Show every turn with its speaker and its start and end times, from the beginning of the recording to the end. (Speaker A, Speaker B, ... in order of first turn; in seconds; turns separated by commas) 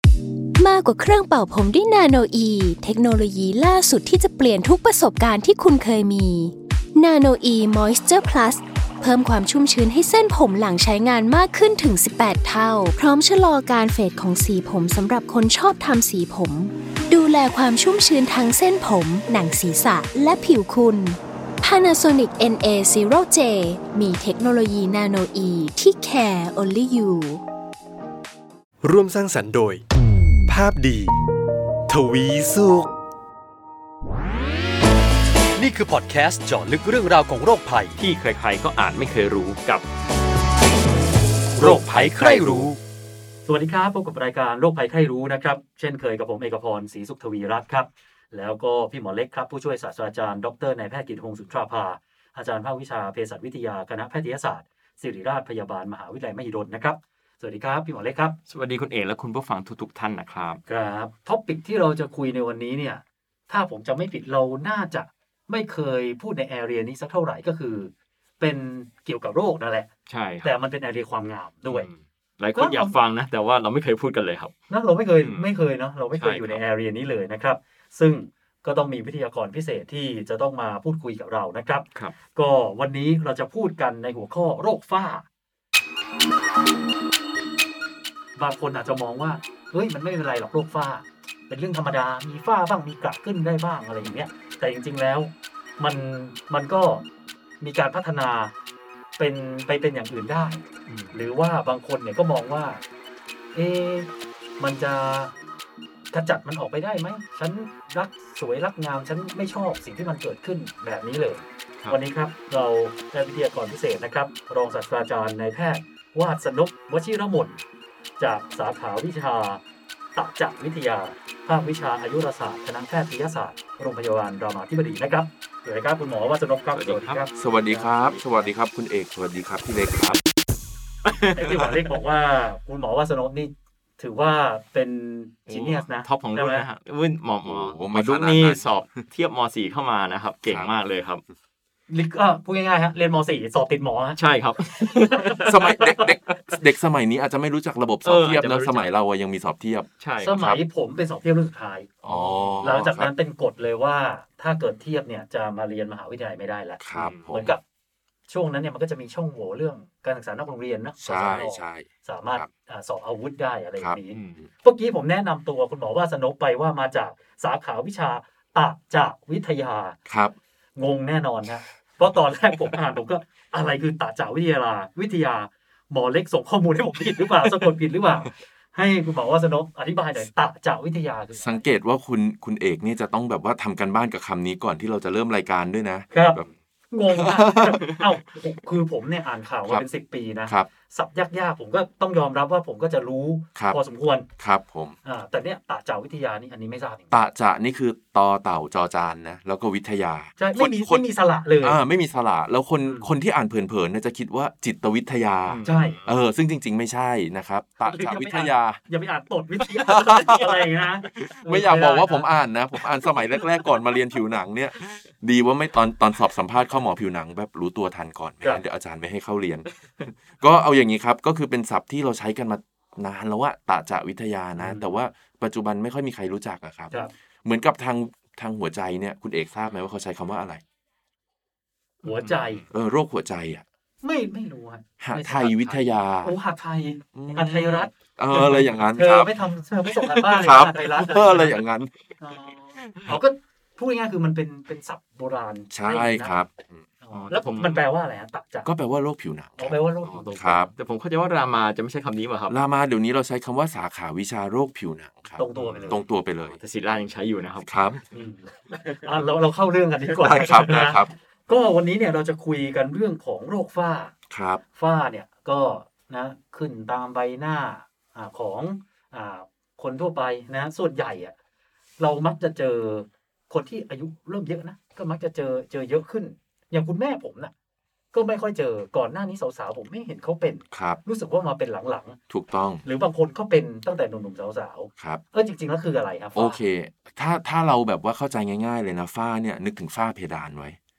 Speaker A: 0.6-27.4, Speaker B: 28.8-29.8, Speaker B: 30.5-31.1, Speaker B: 31.9-32.9, Speaker C: 35.7-36.7, Speaker D: 38.0-39.9, Speaker C: 41.5-42.7, Speaker D: 41.6-42.7, Speaker B: 41.6-42.7, Speaker C: 43.5-58.4, Speaker D: 58.5-60.6, Speaker C: 60.7-69.9, Speaker D: 70.1-70.5, Speaker C: 70.4-71.9, Speaker D: 71.7-74.5, Speaker C: 72.5-72.9, Speaker C: 74.7-85.2, Speaker D: 75.2-75.5, Speaker D: 76.1-76.6, Speaker C: 88.4-97.0, Speaker C: 97.6-98.5, Speaker C: 99.2-102.8, Speaker D: 100.9-101.1, Speaker C: 103.5-105.3, Speaker C: 106.1-117.5, Speaker C: 118.2-119.6, Speaker C: 120.1-127.3, Speaker D: 126.7-127.3, Speaker E: 127.3-130.2, Speaker D: 127.8-128.2, Speaker D: 131.0-131.9, Speaker C: 131.3-136.7, Speaker D: 135.5-141.2, Speaker E: 137.4-138.6, Speaker C: 141.9-144.2, Speaker D: 144.2-146.4, Speaker C: 145.1-146.1, Speaker E: 145.4-150.6, Speaker D: 148.0-148.9, Speaker D: 150.0-150.5, Speaker C: 150.2-152.0, Speaker E: 152.0-153.1, Speaker D: 152.1-152.7, Speaker C: 152.6-157.6, Speaker E: 156.8-157.5, Speaker D: 156.9-157.5, Speaker C: 158.3-170.0, Speaker E: 161.0-162.5, Speaker E: 163.8-164.5, Speaker D: 164.1-164.4, Speaker E: 170.1-170.3, Speaker C: 170.8-181.6, Speaker E: 181.4-186.5, Speaker C: 186.1-194.3, Speaker E: 187.1-188.0, Speaker E: 194.4-195.0, Speaker C: 195.0-197.2, Speaker E: 197.1-201.0, Speaker C: 200.4-201.8, Speaker E: 201.6-208.8, Speaker D: 205.5-206.1, Speaker C: 205.6-206.0, Speaker C: 207.8-212.3, Speaker E: 209.8-226.9, Speaker C: 224.6-224.9, Speaker E: 227.4-230.6, Speaker C: 232.0-232.6, Speaker D: 232.0-232.6, Speaker E: 232.7-233.6, Speaker C: 234.0-241.6, Speaker E: 235.0-236.4, Speaker E: 237.1-239.3, Speaker E: 239.9-241.9, Speaker C: 242.2-246.3, Speaker E: 245.7-246.8, Speaker C: 247.0-248.7, Speaker D: 247.1-247.9, Speaker E: 248.6-250.7, Speaker C: 249.6-250.5, Speaker D: 250.1-252.6, Speaker E: 252.5-256.6, Speaker C: 255.4-256.0, Speaker D: 255.5-256.0, Speaker D: 256.5-257.7, Speaker E: 257.6-258.0, Speaker C: 258.1-264.1, Speaker D: 258.7-259.0, Speaker E: 260.2-261.1, Speaker E: 264.3-264.6, Speaker C: 264.7-271.3, Speaker C: 272.0-277.5, Speaker C: 278.1-282.2, Speaker E: 280.7-281.0, Speaker E: 282.3-282.8, Speaker C: 282.8-286.6, Speaker E: 285.0-285.2, Speaker E: 286.3-290.8